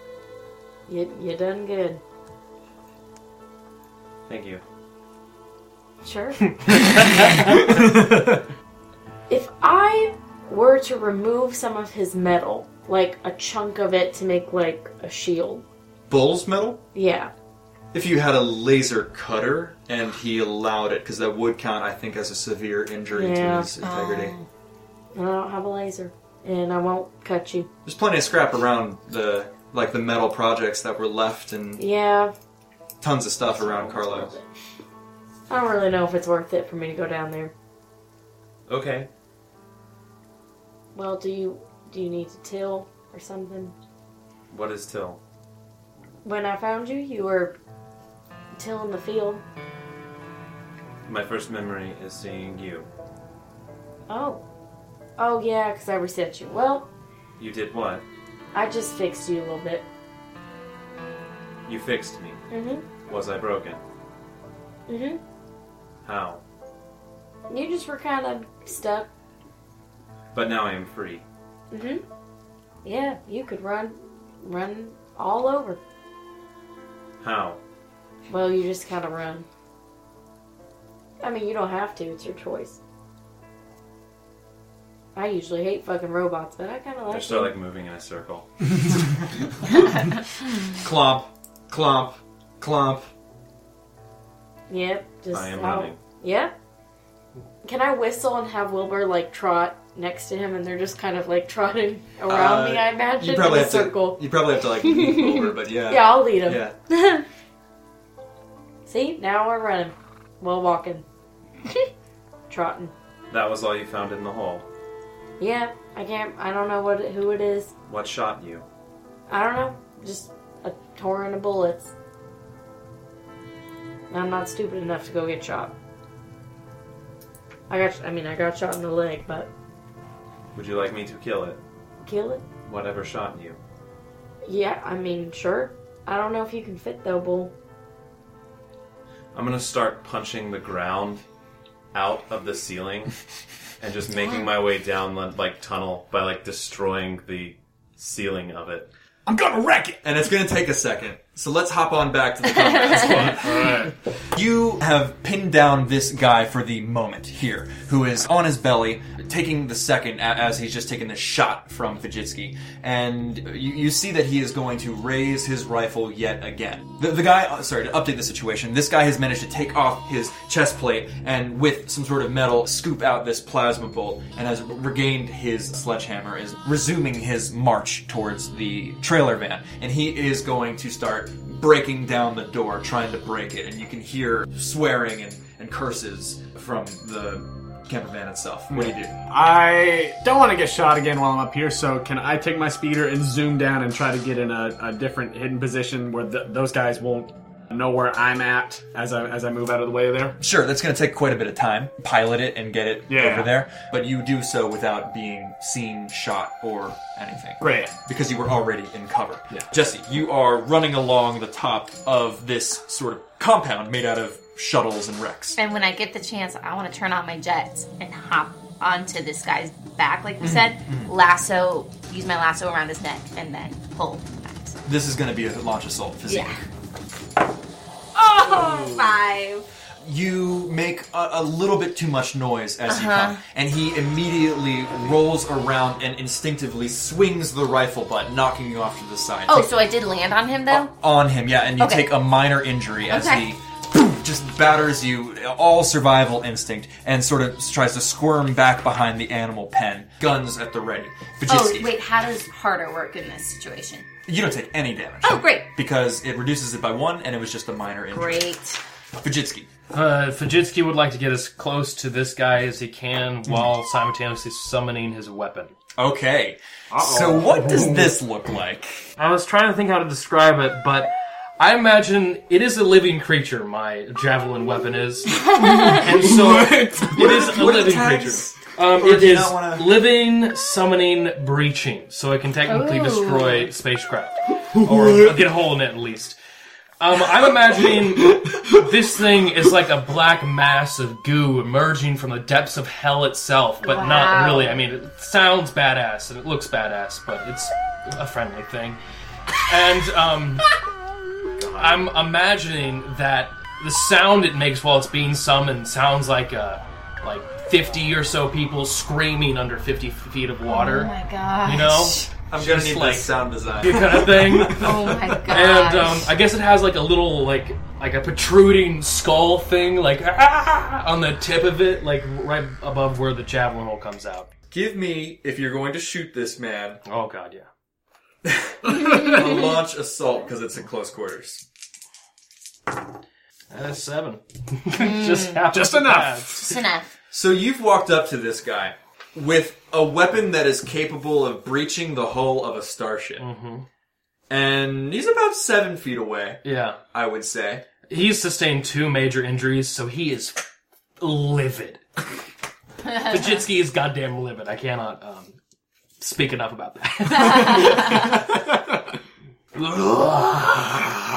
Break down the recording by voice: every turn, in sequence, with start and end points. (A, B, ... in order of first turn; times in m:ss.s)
0:00.9-0:02.0 A
0:04.3-0:04.6 B
0:06.0-0:06.4 A
0:06.7-0:07.6 C
0:09.3-0:15.6 A
0:16.1-0:16.8 D
0:16.9-0:17.3 A
0:17.9-0:24.4 D
0:23.1-0:23.7 A
0:23.8-0:24.4 E
0:25.1-0:27.7 A
0:27.8-0:31.8 D
0:31.8-0:32.3 A
0:33.0-0:34.3 D
0:33.6-0:34.4 A
0:35.5-0:37.5 A
0:38.7-0:39.1 B
0:40.9-0:43.7 A
0:44.5-0:45.2 B
0:46.2-0:47.6 A
0:48.5-0:49.4 A
0:51.0-0:52.9 B
0:54.1-0:54.4 A
0:55.2-0:56.9 A
0:57.4-0:58.0 B
0:58.5-0:59.9 A
1:01.6-1:02.4 B
1:02.5-1:02.9 A
1:03.0-1:03.8 B
1:04.9-1:05.2 A
1:06.0-1:06.4 B
1:07.5-1:09.1 A
1:10.3-1:11.2 B
1:11.7-1:12.0 A
1:12.8-1:15.8 A
1:17.2-1:17.6 B
1:18.3-1:19.5 A
1:21.2-1:22.8 A
1:25.1-1:27.5 A
1:27.1-1:28.5 B
1:30.7-1:33.1 D
1:34.7-1:36.5 A
1:35.3-1:36.0 B
1:37.6-1:44.2 A
1:42.2-1:46.8 D
1:45.0-1:45.2 A
1:45.9-1:46.6 A
1:48.8-1:51.0 A
1:52.5-1:52.9 A
1:53.3-1:54.7 B
1:55.4-1:57.7 A
1:57.9-1:58.6 B
1:59.3-2:01.9 A
2:04.1-2:05.7 A
2:07.7-2:09.5 A
2:10.5-2:11.6 B
2:12.0-2:12.4 A
2:12.6-2:13.6 B
2:14.4-2:17.5 A
2:19.3-2:21.2 B
2:21.9-2:23.1 B
2:23.8-2:28.9 B
2:24.2-2:24.5 E
2:29.2-2:30.0 F
2:30.0-3:09.1 D
2:32.7-2:33.1 E
2:33.4-2:33.9 F
3:08.7-3:20.4 F
3:20.4-3:35.6 D
3:23.1-3:23.5 F
3:27.6-3:27.9 F
3:35.6-3:44.8 E
3:40.4-3:41.1 D
3:44.8-3:46.5 D
3:46.3-3:46.6 E
3:48.1-3:49.6 E
3:50.0-3:59.7 D
3:52.9-3:53.4 E
3:59.5-4:00.9 E
4:00.7-4:11.9 D
4:01.8-4:02.1 E
4:03.1-4:03.4 E
4:11.5-4:14.1 E
4:14.3-4:18.4 D
4:15.2-4:15.7 E
4:18.1-4:18.8 E
4:19.2-4:19.7 D
4:19.9-4:25.7 C
4:26.0-4:29.1 D
4:26.9-4:28.1 F
4:29.2-4:46.4 C
4:35.5-4:36.0 E
4:35.6-4:37.3 F
4:37.1-4:40.0 D
4:42.6-4:43.7 E
4:47.0-4:59.0 C
4:53.8-4:54.8 E
4:59.6-5:00.7 C
5:01.6-5:02.1 B
5:01.8-5:24.5 C
5:10.7-5:12.3 E
5:12.5-5:14.8 D
5:14.7-5:16.3 E
5:24.7-5:27.0 D
5:27.0-5:27.7 C
5:28.4-5:31.6 D
5:33.7-5:36.8 C
5:34.9-5:35.7 E
5:35.7-5:36.7 F
5:36.6-5:37.1 E
5:37.3-5:43.4 D
5:43.4-5:43.9 C
5:44.5-5:47.8 D
5:46.6-5:47.0 C
5:48.1-5:50.6 C
5:51.2-5:52.0 C
5:53.1-5:55.6 C
5:56.2-5:58.6 C
5:59.7-6:01.2 C
6:00.7-6:01.2 F